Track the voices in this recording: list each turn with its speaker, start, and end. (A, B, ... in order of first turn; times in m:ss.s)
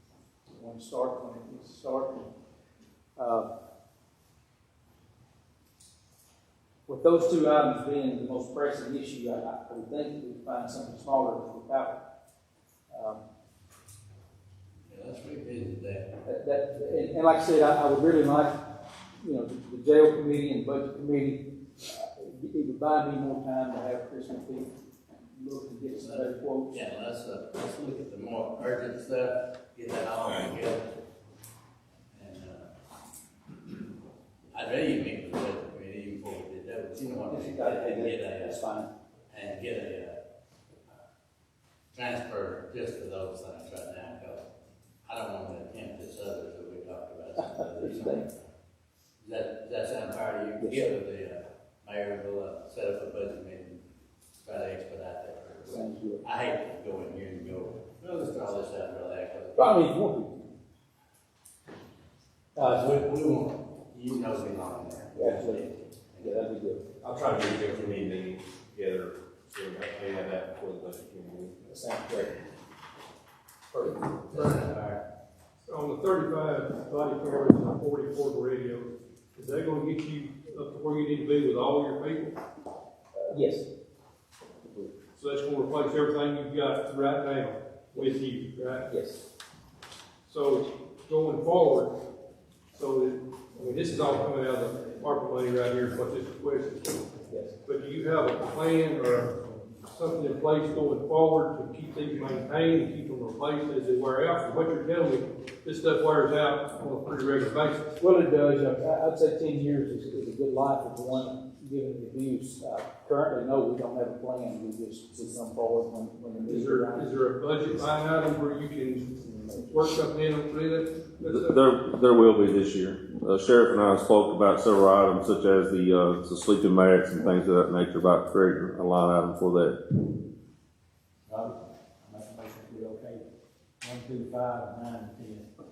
0:00.5-0:02.3 A
0:03.2-0:03.5 A
0:06.9-0:12.0 A
0:12.9-0:13.2 A
0:14.9-0:16.1 B
0:16.2-0:18.6 A
0:19.2-0:24.7 A
0:25.3-0:26.8 A
0:26.0-0:30.9 B
0:32.1-0:32.7 B
0:34.5-0:38.6 B
0:37.0-0:38.9 A
0:39.3-0:40.2 B
0:41.9-0:44.4 B
0:45.0-0:48.3 B
0:47.4-0:48.3 A
0:49.2-0:53.8 B
0:50.6-0:50.9 A
0:54.4-0:59.9 B
0:55.7-0:56.2 A
0:59.6-1:00.4 A
1:02.6-1:03.1 A
1:02.6-1:06.5 B
1:05.1-1:05.7 A
1:06.2-1:06.8 A
1:07.0-1:11.6 C
1:07.6-1:07.9 B
1:11.6-1:12.3 A
1:13.7-1:14.0 A
1:14.3-1:15.0 B
1:15.7-1:22.4 D
1:23.2-1:23.7 A
1:25.1-1:28.9 D
1:28.9-1:29.2 A
1:30.2-1:31.9 D
1:32.7-1:37.0 D
1:37.2-1:37.5 A
1:37.6-1:47.9 D
1:48.0-1:57.1 A
1:56.4-2:01.6 D
1:59.2-1:59.7 A
2:01.3-2:09.8 E
2:11.3-2:13.2 F
2:13.8-2:15.5 F